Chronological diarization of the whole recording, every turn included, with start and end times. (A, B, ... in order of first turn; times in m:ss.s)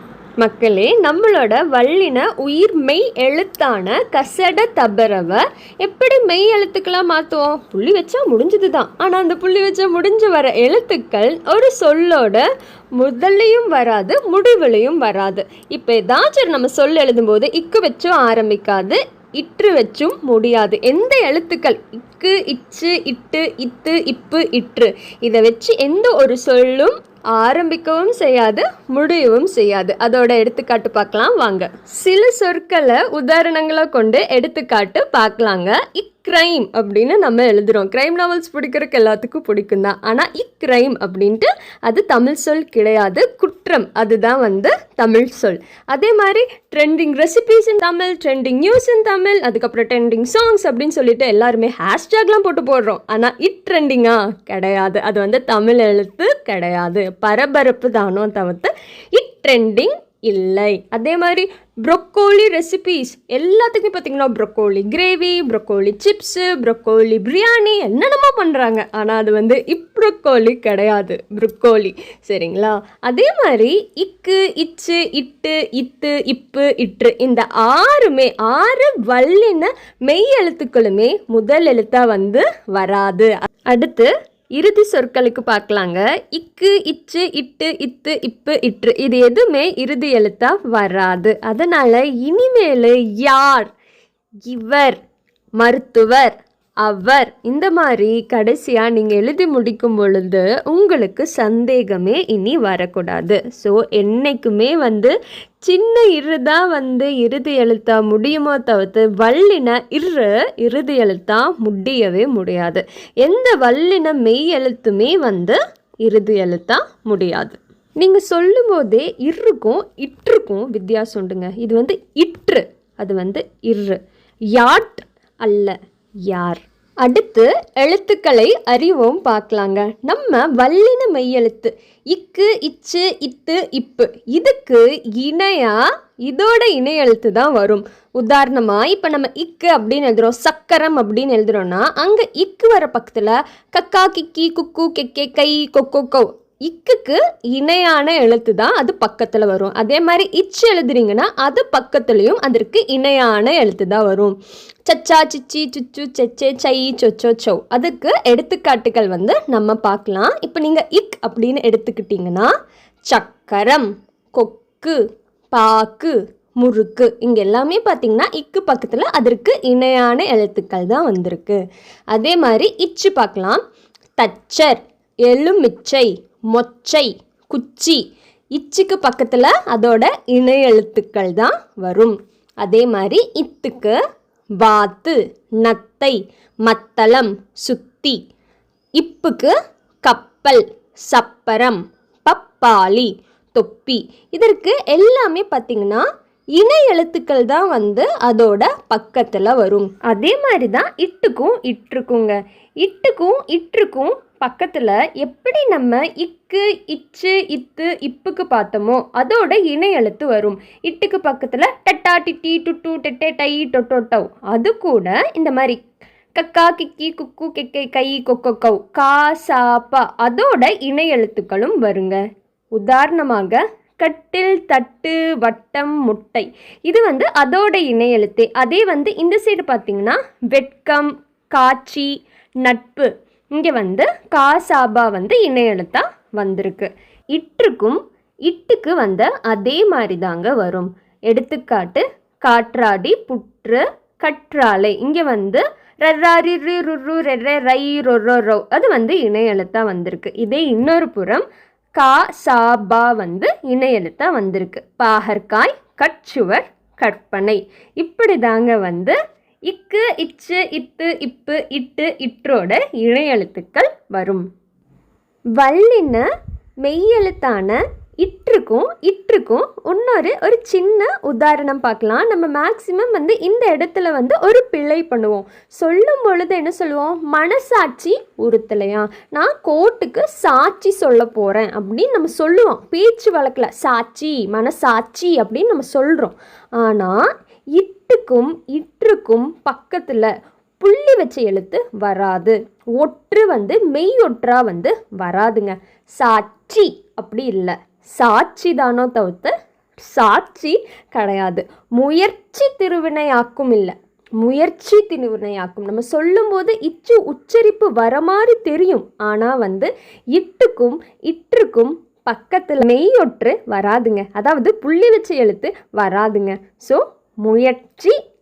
0:00.4-0:12.4 A
0:13.0-1:33.7 A
1:34.5-1:35.0 A
1:35.6-2:04.0 A
2:04.5-2:05.8 A
2:06.3-2:34.4 A
2:34.9-2:42.5 A
2:43.1-2:45.0 A
2:45.5-2:51.6 A
2:52.1-2:53.6 A
2:54.2-2:58.0 A
2:58.5-3:04.0 A
3:04.6-3:08.2 A
3:09.0-3:09.5 A
3:10.0-3:16.0 A
3:16.6-3:35.8 A
3:36.4-3:42.2 A
3:42.7-4:11.4 A
4:12.0-4:19.2 A
4:19.7-4:24.4 A
4:25.6-4:26.2 A
4:26.8-4:47.2 A
4:47.8-4:59.5 A
5:00.1-5:18.2 A